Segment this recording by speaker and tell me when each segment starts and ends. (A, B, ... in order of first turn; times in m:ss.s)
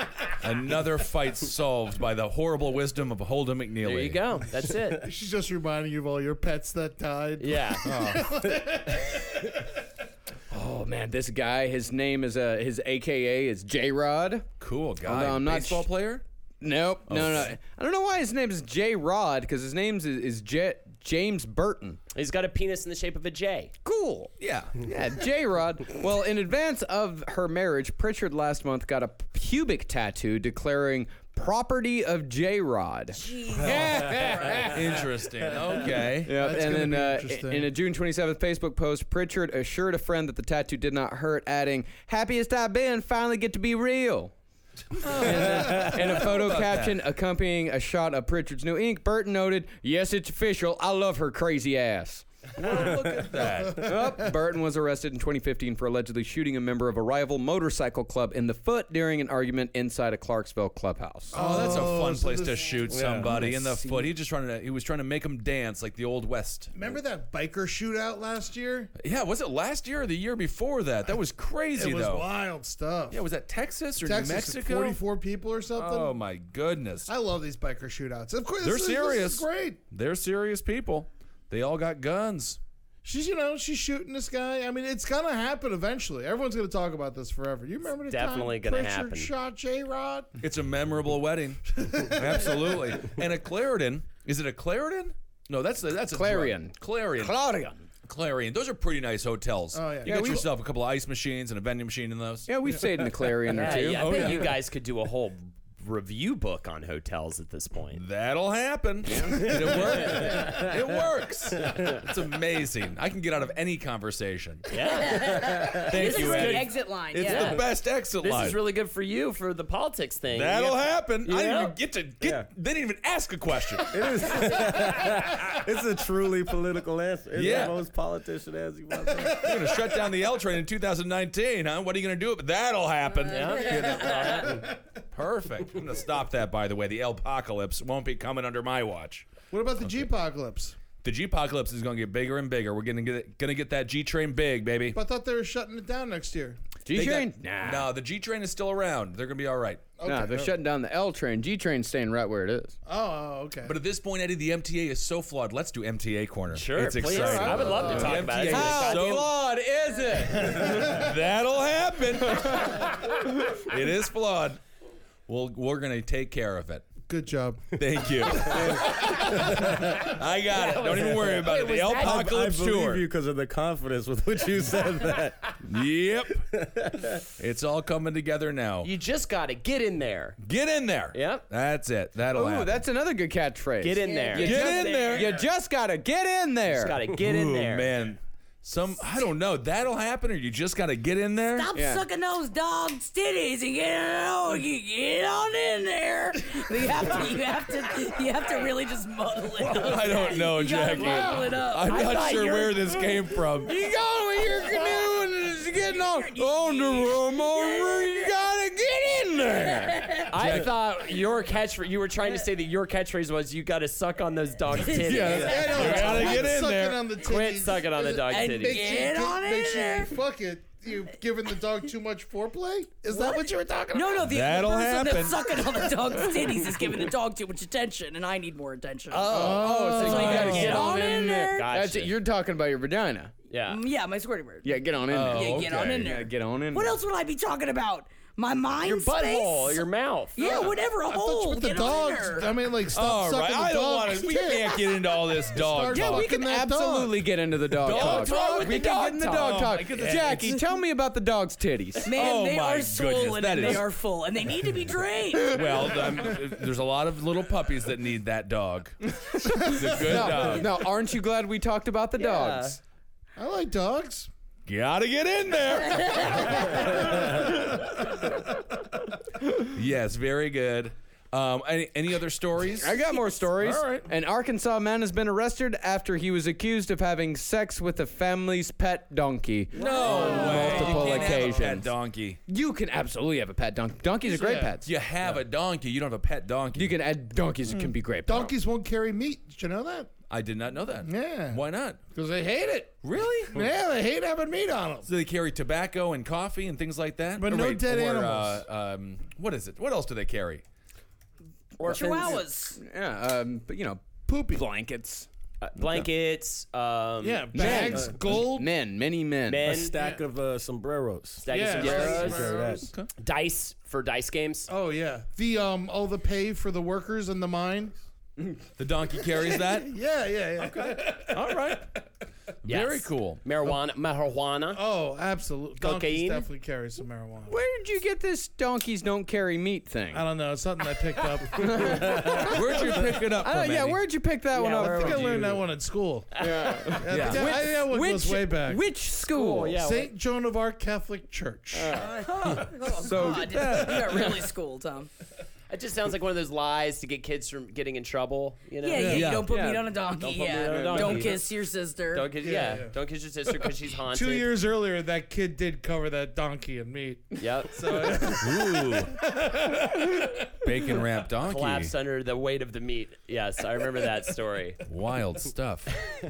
0:00.4-0:04.2 A
0:03.8-0:05.1 B
0:05.0-0:09.4 C
0:07.4-0:07.9 B
0:07.8-0:08.4 A
0:10.5-0:14.5 D
0:14.6-0:16.2 A
0:15.0-0:15.9 D
0:16.6-0:22.0 D
0:17.1-0:17.5 A
0:22.1-0:23.7 B
0:23.8-0:33.2 D
0:24.4-0:24.9 A
0:33.1-0:34.8 E
0:33.6-0:35.0 C
0:34.7-0:36.3 A
0:36.2-0:44.3 D
0:36.3-0:37.7 C
0:44.9-0:47.0 A
0:45.2-0:52.2 D
0:52.6-0:54.0 A
0:53.3-0:53.7 C
0:53.7-1:01.9 D
1:01.3-1:03.0 C
1:01.3-1:06.7 A
1:02.9-1:03.3 F
1:03.2-1:04.1 D
1:06.7-1:08.9 C
1:09.0-1:12.3 A
1:11.8-1:13.2 C
1:13.1-1:15.0 A
1:14.0-1:16.1 C
1:15.7-1:17.1 A
1:17.1-1:19.8 C
1:18.6-1:22.6 A
1:23.0-1:30.3 C
1:28.1-1:29.3 B
1:30.4-1:37.3 A
1:31.8-1:32.8 C
1:36.1-1:37.9 D
1:38.0-1:42.5 A
1:39.7-1:40.4 C
1:40.0-1:40.5 D
1:42.5-1:44.4 D
1:43.5-1:48.0 B
1:43.5-1:44.6 A
1:47.9-1:54.6 A
1:49.0-1:49.7 D
1:50.2-1:50.7 F
1:54.7-1:57.6 B
1:54.9-1:57.6 E
1:55.8-1:58.6 A
1:58.2-2:01.7 B
2:00.3-2:04.5 A
2:02.2-2:02.5 F
2:03.9-2:09.5 F
2:07.3-2:07.8 A
2:09.2-2:19.3 A
2:13.2-2:14.7 B
2:19.5-2:20.8 C
2:21.0-2:25.0 A
2:24.9-2:26.6 C
2:26.8-2:27.9 D
2:26.9-2:29.9 A
2:30.0-2:30.5 C
2:30.0-2:32.7 D
2:32.8-2:33.7 C
2:33.6-2:39.3 A
2:36.5-2:39.2 B
2:37.0-2:38.2 C
2:37.4-2:41.0 D
2:40.3-2:44.6 A
2:42.4-2:42.7 D
2:45.3-2:46.8 A
2:47.1-2:47.7 C
2:47.8-2:53.0 A
2:49.5-2:50.0 F
2:50.5-2:52.2 B
2:52.0-2:55.6 F
2:55.6-2:56.4 A
2:56.5-2:57.2 F
2:57.4-2:58.9 A
2:58.8-3:00.4 B
3:00.4-3:02.8 A
3:01.1-3:01.4 B
3:02.3-3:07.0 D
3:03.8-3:04.6 B
3:04.0-3:05.3 E
3:04.4-3:05.3 A
3:06.7-3:07.9 B
3:07.2-3:11.7 A
3:11.5-3:22.3 E
3:11.7-3:12.0 D
3:19.6-3:23.8 A
3:21.8-3:22.9 B
3:23.6-3:30.2 D
3:24.4-3:28.3 E
3:29.9-3:30.2 E
3:30.3-3:36.4 B
3:30.4-3:30.7 A
3:34.7-3:35.4 E
3:35.0-3:37.1 A
3:35.3-3:35.5 D
3:35.3-3:44.2 C
3:37.2-3:38.8 B
3:38.2-3:40.1 E
3:43.1-3:49.4 E
3:44.2-3:45.6 A
3:49.1-3:52.1 B
3:49.3-3:50.6 C
3:49.3-3:53.3 D
3:50.0-3:51.7 E
3:50.0-3:50.8 A
3:53.5-3:53.8 B
3:53.7-3:54.7 E
3:54.6-3:57.0 D
3:55.1-3:56.1 A
3:55.3-4:02.5 E
3:58.8-4:00.6 B
4:00.4-4:07.2 C
4:02.9-4:06.3 A
4:05.9-4:12.1 D
4:07.8-4:10.6 A
4:08.2-4:09.6 B
4:12.0-4:16.0 E
4:12.1-4:13.9 A
4:15.4-4:20.8 A
4:19.2-4:22.8 D
4:22.2-4:22.8 B
4:23.4-4:24.3 C
4:24.7-4:27.5 A
4:29.6-4:33.0 A
4:32.7-4:41.9 D
4:33.6-4:34.1 A
4:39.7-4:42.4 A
4:39.8-4:41.0 E
4:42.5-4:44.9 D
4:44.2-4:44.8 C
4:44.8-4:47.0 A
4:46.7-4:48.5 D
4:48.2-4:50.1 C
4:50.3-4:52.0 A
4:51.0-4:51.6 C
4:52.1-4:52.9 C
4:53.0-4:53.7 A
4:53.5-4:55.1 C
4:55.0-5:00.6 A
4:57.4-4:58.6 C
5:01.8-5:02.4 B
5:01.8-5:02.8 E
5:02.7-5:05.3 D
5:04.3-5:04.6 C
5:05.6-5:07.8 B
5:07.2-5:08.7 C
5:07.5-5:09.7 D
5:07.7-5:08.2 F
5:09.5-5:10.0 B
5:09.6-5:12.9 F
5:11.4-5:14.7 B
5:11.5-5:12.9 C
5:14.7-5:18.0 C
5:18.8-5:19.9 A
5:19.4-5:21.8 C
5:20.6-5:21.9 A
5:22.6-5:23.4 A
5:22.6-5:24.8 B
5:24.7-5:27.6 C
5:25.8-5:26.5 B
5:27.5-5:30.2 D
5:30.1-5:32.8 C
5:31.5-5:32.6 D
5:32.2-5:34.0 A
5:33.4-5:35.5 D
5:34.5-5:35.6 B
5:34.8-5:38.8 C
5:36.3-5:36.8 B
5:36.4-5:39.8 D
5:37.1-5:37.6 A
5:39.3-5:40.1 B
5:39.7-5:42.0 C
5:41.7-5:43.9 D
5:42.2-5:44.4 A
5:42.2-5:45.1 E
5:45.7-5:49.6 B
5:48.8-5:52.3 E
5:49.0-5:49.5 A
5:49.5-5:49.8 D
5:50.2-5:51.5 B
5:50.7-5:51.3 D
5:52.1-5:54.5 B
5:52.4-5:52.9 C
5:54.0-6:00.3 C
5:57.4-5:58.2 B
5:58.4-5:59.2 A
6:00.6-6:01.9 A
6:01.4-6:04.8 B
6:04.8-6:06.0 A